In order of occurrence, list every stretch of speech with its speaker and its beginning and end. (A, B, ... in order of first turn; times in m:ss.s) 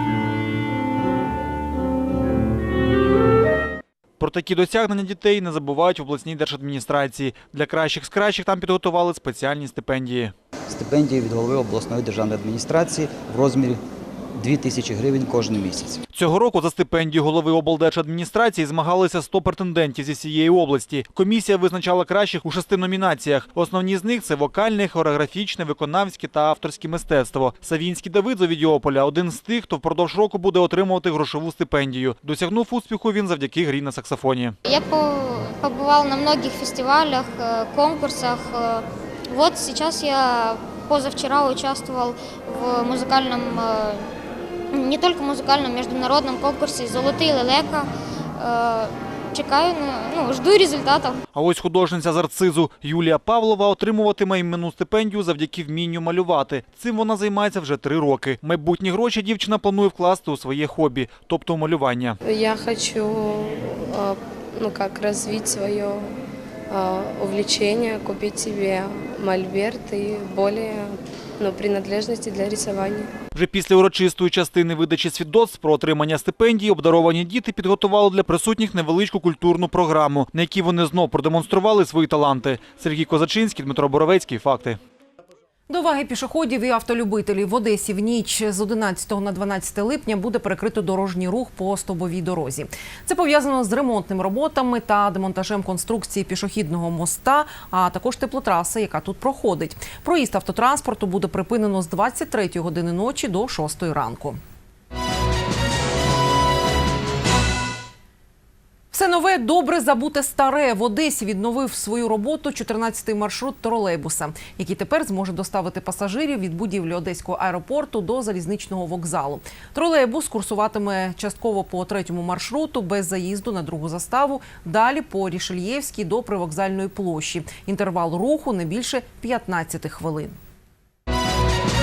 0:04.2-0:10.3 A
0:10.7-0:13.8 B
0:14.4-0:16.0 B
0:16.1-0:34.6 A
0:34.7-0:44.1 C
0:44.7-0:51.2 C
0:51.3-1:02.2 A
1:02.3-1:06.0 D
1:06.7-1:13.1 D
1:13.4-1:24.8 A
1:25.7-1:44.4 E
1:48.9-2:10.4 E